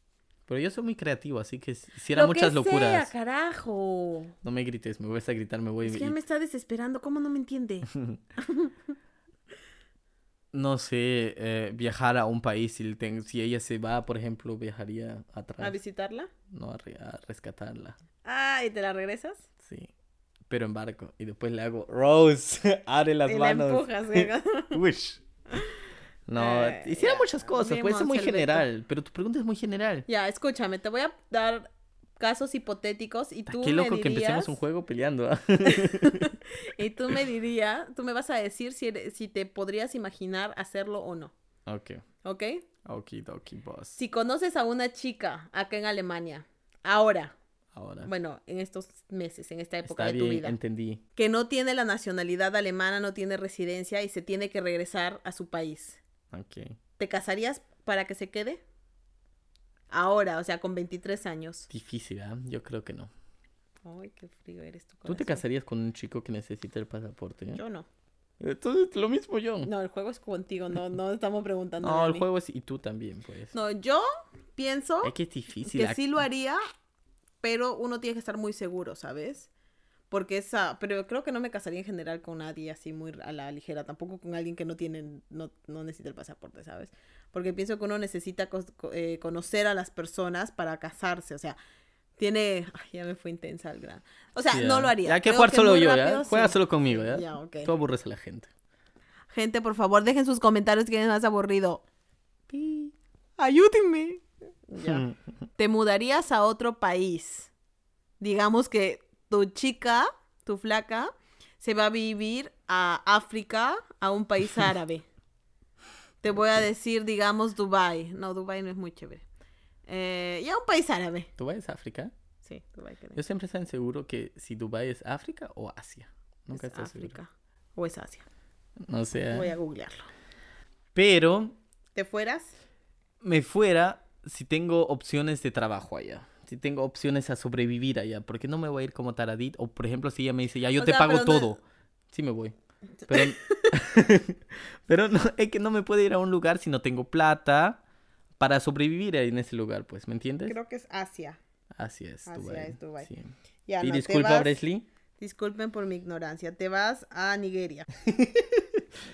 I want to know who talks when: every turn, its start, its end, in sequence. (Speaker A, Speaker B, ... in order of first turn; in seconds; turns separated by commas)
Speaker A: 0.5-3.1, Speaker B: 2.1-4.3, Speaker A: 4.4-6.1, Speaker B: 5.8-8.7, Speaker A: 10.5-15.8, Speaker B: 15.6-16.3, Speaker A: 16.5-17.9, Speaker B: 18.2-19.4, Speaker A: 19.6-19.9, Speaker A: 20.5-25.2, Speaker B: 23.2-24.8, Speaker A: 26.3-30.1, Speaker B: 26.4-28.6, Speaker B: 30.1-34.6, Speaker A: 33.5-36.3, Speaker B: 35.6-41.3, Speaker A: 41.7-42.0, Speaker B: 42.2-42.6, Speaker A: 42.8-44.0, Speaker B: 44.0-47.3, Speaker A: 47.7-48.1, Speaker B: 48.0-50.6, Speaker A: 49.8-51.0, Speaker B: 51.1-56.0, Speaker A: 56.3-56.8, Speaker B: 57.0-58.6, Speaker B: 59.9-61.7, Speaker A: 61.7-63.1, Speaker B: 63.8-65.4, Speaker A: 65.0-67.6, Speaker B: 67.5-67.8, Speaker A: 68.4-69.7, Speaker B: 69.6-72.2, Speaker A: 71.8-73.5, Speaker B: 73.5-75.1, Speaker A: 75.0-76.0, Speaker B: 75.7-76.6, Speaker B: 77.4-79.5, Speaker B: 80.1-91.6, Speaker B: 92.2-97.7, Speaker A: 94.5-98.5, Speaker B: 99.3-101.8, Speaker A: 102.5-102.9, Speaker B: 103.4-105.0, Speaker A: 104.8-105.2, Speaker B: 105.6-107.5, Speaker B: 108.2-115.0, Speaker B: 116.2-119.2, Speaker B: 119.9-121.3, Speaker A: 121.4-122.1, Speaker B: 122.4-123.2, Speaker A: 123.2-127.2, Speaker B: 126.5-128.2, Speaker A: 128.8-129.5, Speaker B: 129.3-130.1, Speaker A: 130.9-131.6, Speaker B: 131.9-132.5, Speaker A: 133.2-142.5, Speaker B: 140.8-141.6, Speaker B: 143.1-143.7, Speaker A: 143.1-147.8, Speaker A: 148.4-150.6, Speaker B: 150.4-151.4, Speaker A: 151.7-154.8, Speaker B: 152.2-153.1, Speaker B: 153.7-154.6, Speaker B: 155.2-157.9, Speaker A: 158.0-158.8